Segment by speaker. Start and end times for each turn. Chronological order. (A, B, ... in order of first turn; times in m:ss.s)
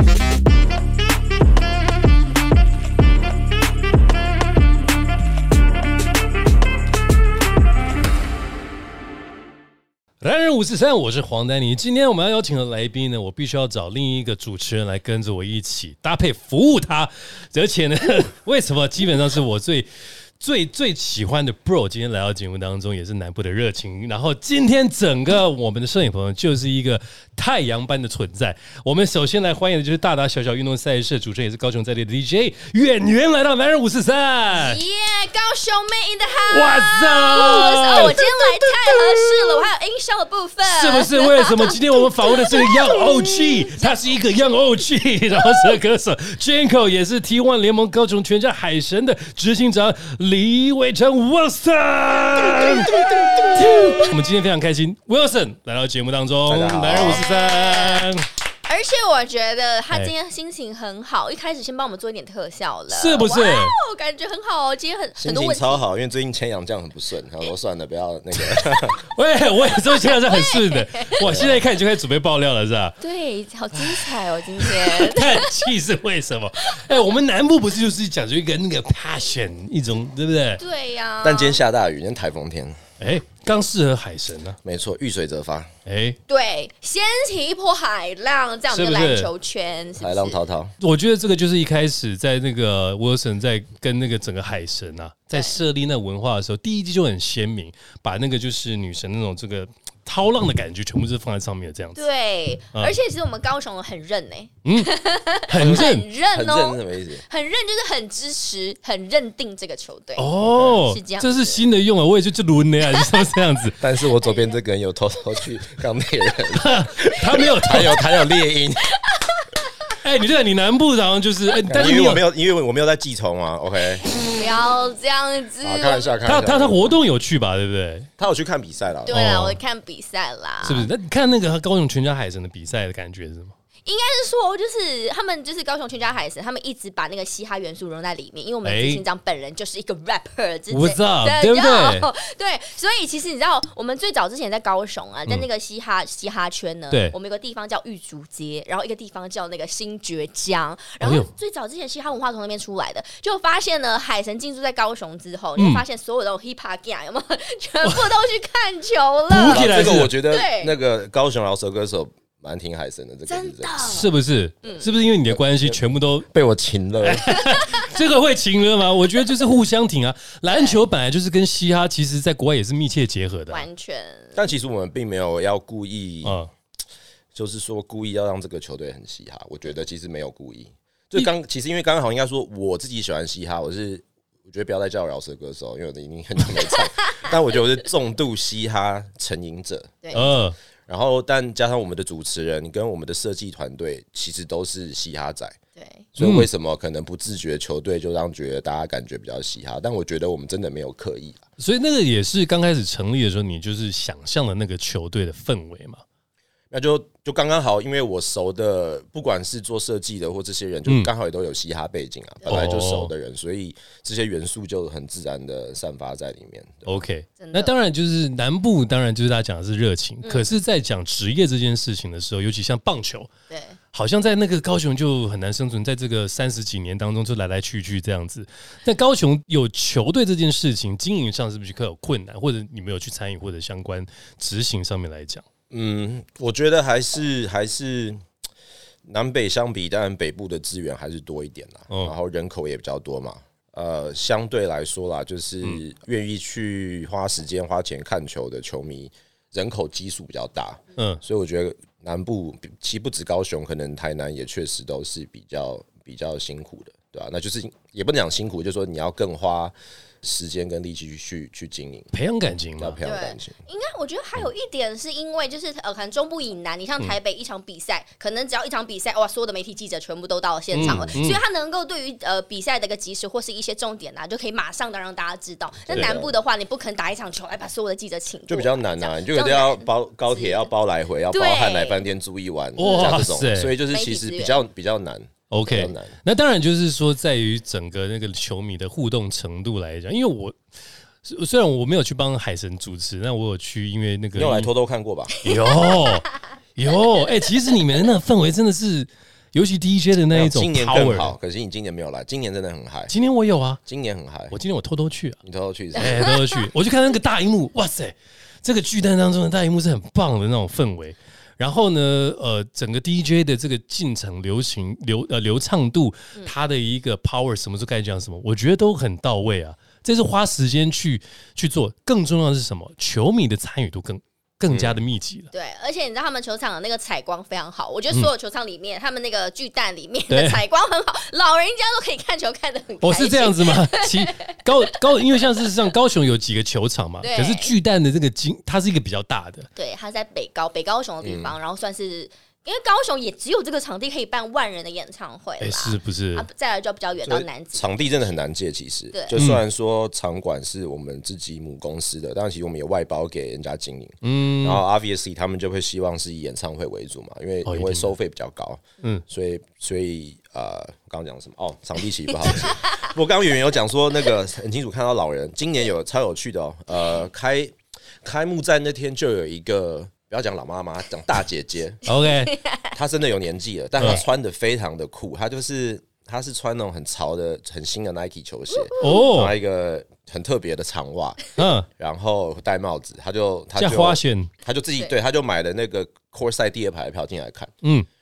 0:10.2-0:19.9 A
0:20.4-0:34.8 A
0:34.5-0:43.1 B
0:36.5-0:39.6 A
0:40.6-0:58.3 A
0:52.6-0:54.1 B
0:56.5-0:57.2 C
0:56.8-0:58.1 B
0:58.7-1:05.8 B
1:02.9-1:03.8 A
1:05.2-1:09.0 C
1:09.0-1:13.0 A
1:09.6-1:11.2 B
1:11.2-1:11.6 C
1:13.0-1:15.7 B
1:13.8-1:20.6 A
1:16.7-1:17.1 B
1:20.6-1:21.6 B
1:21.2-1:22.8 C
1:23.0-1:24.6 A
1:24.6-1:25.7 C
1:25.8-1:26.2 A
1:26.3-1:30.4 B
1:28.7-1:29.3 A
1:30.0-1:30.7 C
1:30.8-1:42.0 A
1:35.3-1:35.6 B
1:42.0-1:51.6 B
1:44.6-1:44.9 A
1:45.5-1:46.1 A
1:45.6-1:47.2 C
1:50.2-1:53.8 A
1:50.5-1:50.8 C
1:53.0-1:53.3 B
1:53.8-1:58.9 C
1:54.2-1:54.5 B
1:56.5-1:58.0 A
1:58.9-1:59.4 B
2:00.0-2:02.2 A
2:01.7-2:04.0 C
2:04.2-2:06.1 B
2:05.6-2:07.0 C
2:06.2-2:08.1 A
2:08.2-2:09.2 C
2:09.0-2:10.9 B
2:09.1-2:09.6 A
2:10.6-2:13.5 A
2:13.8-2:40.7 B
2:18.6-2:19.0 A
2:20.7-2:22.1 A
2:26.9-2:27.1 A
2:31.0-2:31.3 A
2:35.6-2:35.8 A
2:37.8-2:38.1 A
2:39.3-2:40.1 A
2:39.4-2:43.9 C
2:43.3-2:44.1 B
2:43.8-2:46.3 A
2:44.6-2:44.9 B
2:45.3-2:45.8 C
2:46.3-2:47.3 C
2:47.0-2:53.6 A
2:50.5-2:50.8 B
2:53.5-2:54.4 B
2:54.3-2:56.4 C
2:56.2-2:56.5 A
2:57.3-3:10.0 C
3:10.0-3:10.3 B
3:10.1-3:10.6 A
3:10.9-3:15.6 C
3:15.8-3:16.0 B
3:16.1-3:21.4 C
3:16.2-3:16.5 A
3:21.6-3:26.0 A
3:26.7-3:36.9 C
3:32.4-3:33.1 A
3:36.8-3:43.3 A
3:37.4-3:37.7 B
3:43.5-3:43.8 B
3:43.9-3:55.4 A
3:55.7-3:58.2 C
3:59.0-4:22.1 C
4:22.1-4:23.0 A
4:22.8-4:23.6 C
4:23.0-4:40.6 B
4:30.7-4:31.4 A
4:30.8-4:31.2 C
4:35.9-4:36.3 C
4:35.9-4:36.2 A
4:38.5-4:46.1 C
4:41.3-4:42.0 B
4:42.8-4:43.7 A
4:42.8-4:43.2 B
4:43.9-4:44.6 B
4:45.5-4:50.6 A
4:51.2-4:54.7 A
4:54.4-4:55.3 C
4:55.4-5:01.4 A
5:00.3-5:03.1 C
5:03.1-5:03.8 A
5:03.8-5:04.5 C
5:04.5-5:05.4 A
5:05.4-5:06.3 C
5:05.9-5:25.5 A
5:06.2-5:06.6 B
5:24.7-5:25.0 C
5:25.5-5:35.4 B
5:30.3-5:30.6 A
5:33.0-5:39.7 A
5:37.2-5:37.7 B
5:39.8-5:48.3 B
5:41.2-5:41.5 C
5:45.6-5:46.5 A
5:47.2-6:12.0 C
5:49.1-5:49.4 B
5:49.3-5:49.6 A
5:54.2-5:54.8 A
5:57.6-5:58.1 A
6:12.0-6:12.6 A
6:12.4-6:12.9 B
6:12.9-6:21.4 C
6:18.7-6:19.3 B
6:19.0-6:19.5 A
6:21.6-6:21.9 A
6:21.9-6:27.7 C
6:23.8-6:24.5 A